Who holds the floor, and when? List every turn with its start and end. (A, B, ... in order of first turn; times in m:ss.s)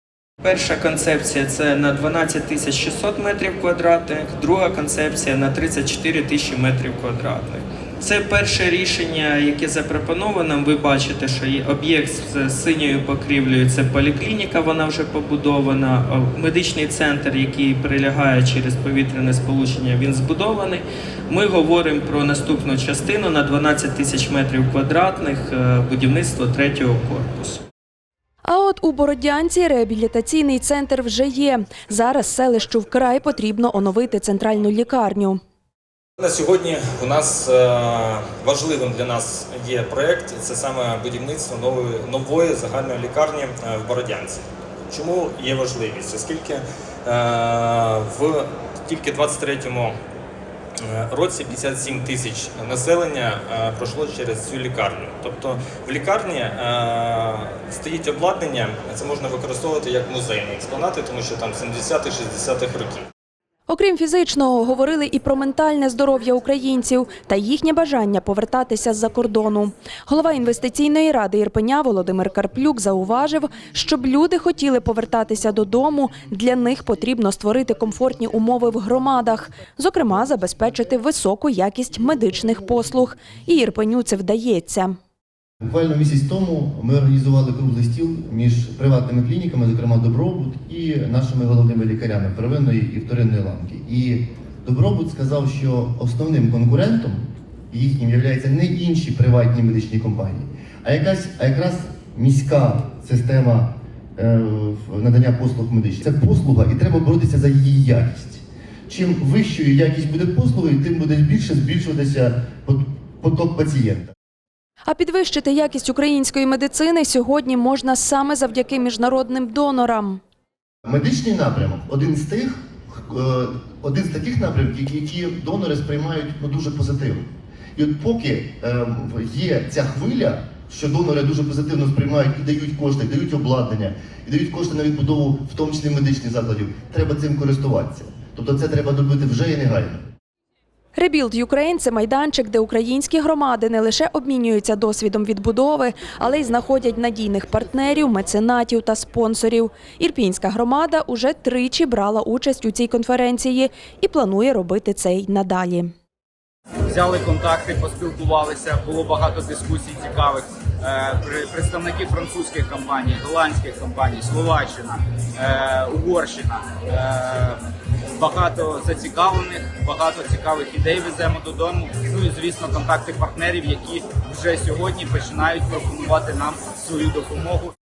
0:00.4-0:27.6 A
0:28.4-0:35.4 B
0:36.2-0:50.0 C
0:50.8-1:03.0 C
1:03.7-1:25.0 B
1:25.6-1:54.1 D
1:54.9-2:00.2 B
2:00.8-2:20.1 D
2:21.0-2:35.9 B
2:36.9-2:47.6 E
2:48.2-2:57.7 E